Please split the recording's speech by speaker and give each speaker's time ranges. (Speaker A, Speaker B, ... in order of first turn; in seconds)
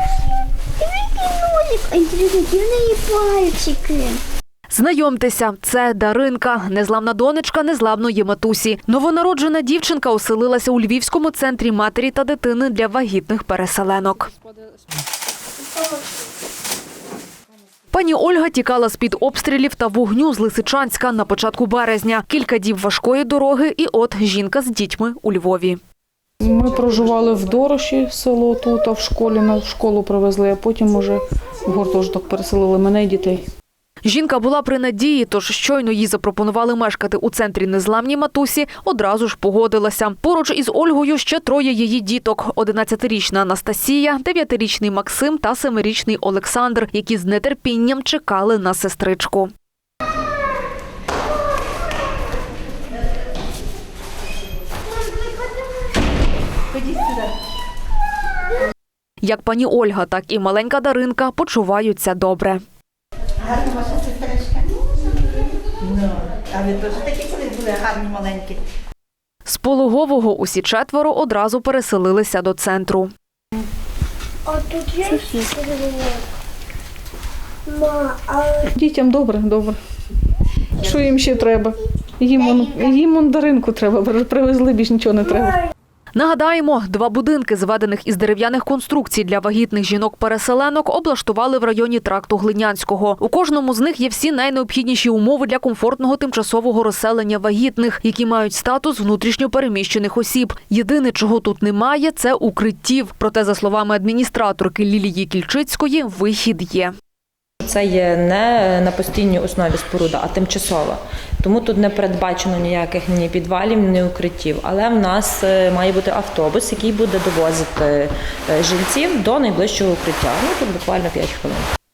Speaker A: 0.8-4.2, 74.5-76.2, 77.7-78.7, 82.5-82.8
Speaker B: 4.7-14.3, 17.9-25.8, 34.0-49.5, 59.2-62.6, 69.4-73.1, 86.1-106.9
Speaker C: 26.4-33.4, 78.7-79.8, 80.8-85.6
Speaker D: 66.6-68.5
Speaker E: 107.6-121.7